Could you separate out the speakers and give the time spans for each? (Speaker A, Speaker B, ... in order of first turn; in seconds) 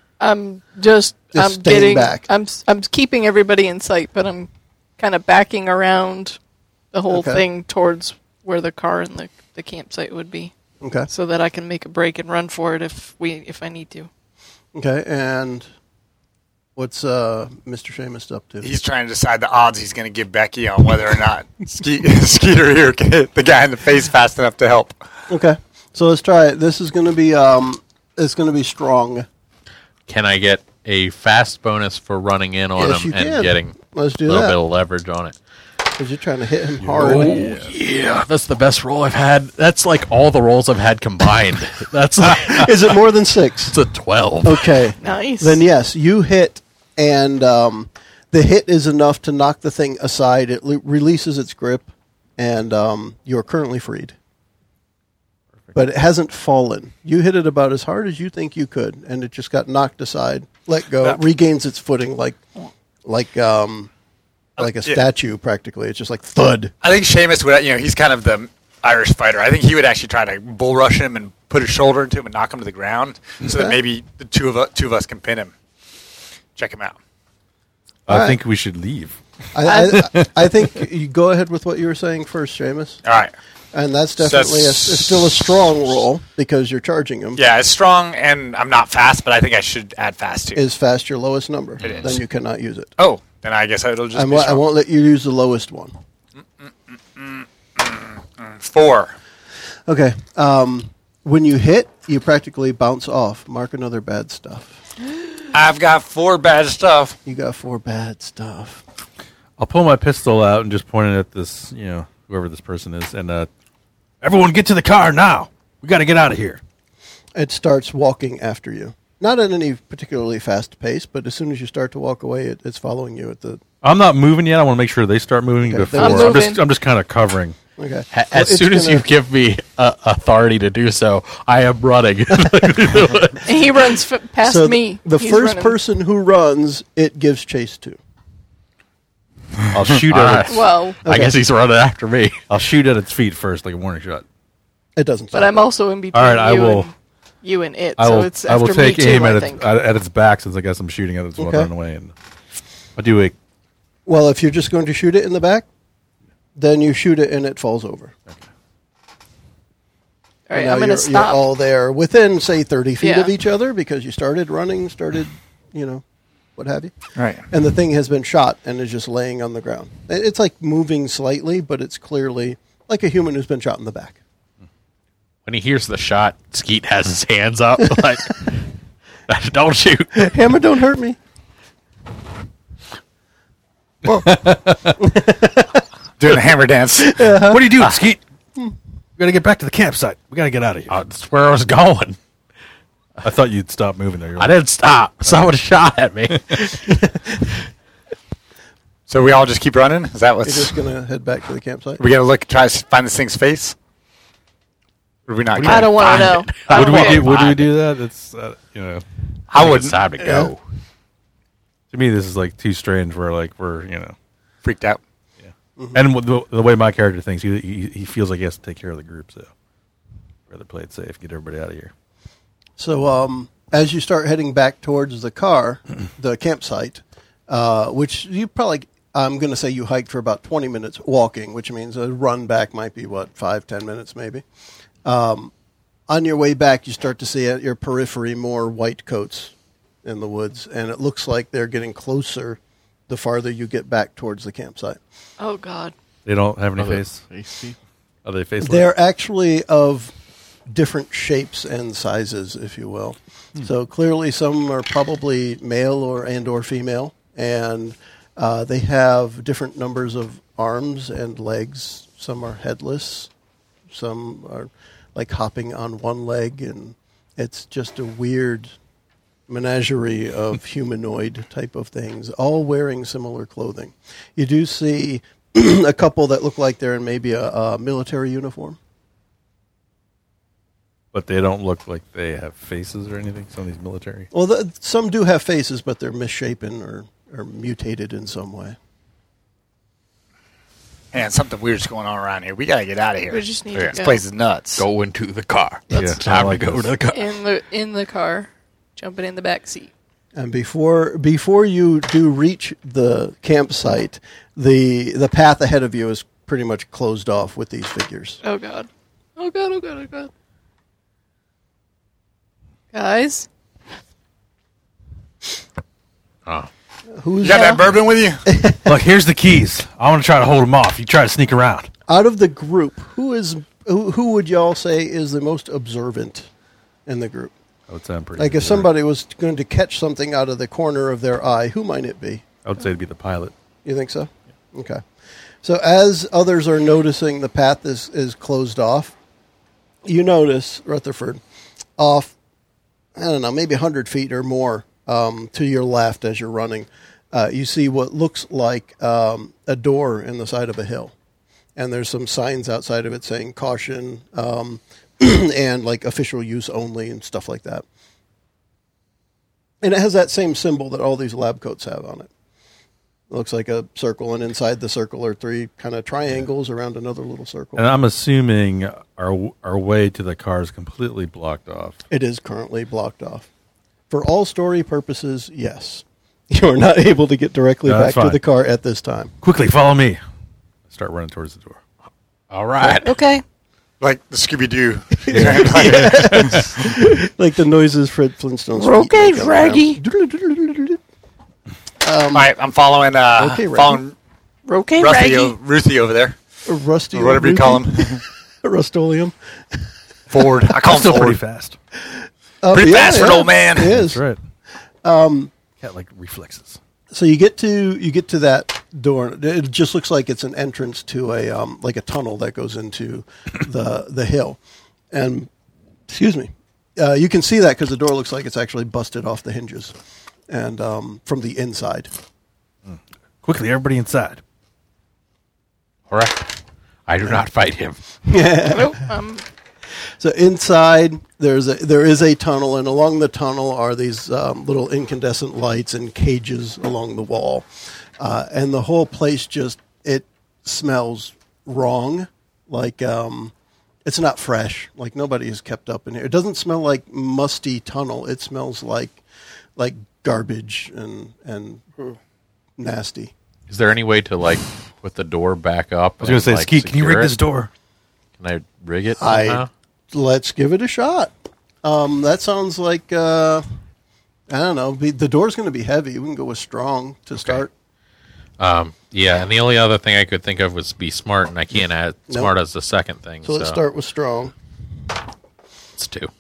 Speaker A: 0.2-6.4, 6.9-10.5, 11.1-14.1, 45.0-45.6, 79.7-79.9, 126.0-126.6, 133.4-135.8, 140.5-141.0, 145.3-149.6, 160.5-161.4, 163.0-163.3, 205.6-207.4, 245.4-245.9, 293.3-294.2, 295.9-296.2, 297.1-299.9, 308.4-310.3, 312.9-313.5, 317.5-317.8, 383.0-383.4, 388.8-390.0, 394.7-395.6, 428.6-429.4
Speaker B: 1.3-2.2, 7.1-7.5, 10.8-11.1, 14.7-15.7, 16.8-18.7, 25.3-29.3, 32.8-34.6, 36.0-37.5, 42.3-43.8, 44.4-54.1, 55.7-62.4, 63.0-63.9, 64.6-66.7, 73.5-73.8, 78.1-78.4, 79.5-83.0, 83.7-87.4, 90.5-92.9, 94.1-96.0, 99.9-104.8, 107.3-108.8, 117.3-123.6, 125.6-126.4, 127.8-129.1, 134.4-138.0, 141.1-141.4, 145.0-145.6, 151.4-151.7, 154.1-155.7, 156.6-158.1, 160.5-166.0, 166.6-166.9, 167.5-174.2, 180.2-181.2, 185.0-185.8, 187.0-187.8, 200.4-202.0, 210.2-210.5, 215.8-216.0, 222.8-234.4, 235.0-235.5, 236.1-239.5, 240.0-245.0, 248.6-250.1, 250.7-263.3, 263.9-268.8, 269.5-278.8, 284.3-288.8, 300.4-308.4, 317.1-317.9, 318.5-318.9, 322.1-326.5, 327.1-327.5, 328.4-332.4, 333.9-335.0, 335.6-339.1, 340.1-341.4, 342.0-342.4, 343.2-351.1, 351.8-357.8, 359.8-362.3, 363.3-367.9, 372.1-373.5, 374.1-379.3, 385.3-391.0, 392.0-392.5, 393.4-394.0, 396.7-399.8, 402.6-404.2, 405.0-405.5, 407.1-414.6, 415.1-415.5, 416.1-419.9, 420.5-422.1, 428.2-429.0, 430.2-437.7, 438.2-443.5, 444.1-449.2, 449.8-452.1, 452.8-453.3, 459.2-461.3, 461.8-463.6, 464.5-467.7, 471.8-472.5, 473.4-474.5
Speaker C: 18.6-25.0, 64.6-65.0, 66.8-75.5, 76.6-77.0, 83.0-83.3, 84.2-85.1, 87.4-90.6, 91.8-92.2, 93.0-94.6, 96.6-99.2, 105.5-107.2, 167.2-167.4, 186.2-187.9, 199.1-200.8, 202.0-203.8, 205.3-206.3, 209.5-210.1, 214.6-215.0, 291.1-294.9, 317.4-318.4, 384.0-386.6, 392.3-394.1, 395.0-396.4, 397.1-398.2, 400.3-401.4, 402.7-403.9
Speaker D: 30.1-35.4, 37.0-43.0, 43.7-44.8, 128.1-133.5, 140.0-142.4, 175.5-178.7, 179.3-180.4, 190.9-192.2, 194.4-196.9, 205.6-207.7, 209.6-210.6, 246.8-247.8, 294.8-297.2, 382.5-383.2, 426.1-426.6, 427.1-428.0, 453.7-457.4, 458.4-459.7, 468.6-473.8, 476.0-476.3
Speaker E: 36.8-37.7, 78.1-79.2, 79.7-80.3, 109.6-113.5, 114.2-116.6, 123.8-127.6, 139.7-140.6, 142.5-144.2, 146.1-146.9, 148.0-152.1, 153.0-153.3, 184.1-185.0, 187.4-188.2, 189.2-190.9, 193.2-194.6, 195.2-195.5, 196.3-196.7, 206.7-209.0, 211.9-214.2, 215.4-219.5, 220.5-221.9, 246.2-247.2, 248.2-248.9, 281.1-284.3, 295.9-297.0, 318.9-321.9, 327.9-328.9, 332.6-333.5, 367.8-372.0, 377.9-378.4, 379.4-380.2, 380.9-381.8, 385.3-386.9, 400.6-401.8, 403.8-404.4, 405.8-406.8, 422.9-424.4, 456.2-457.7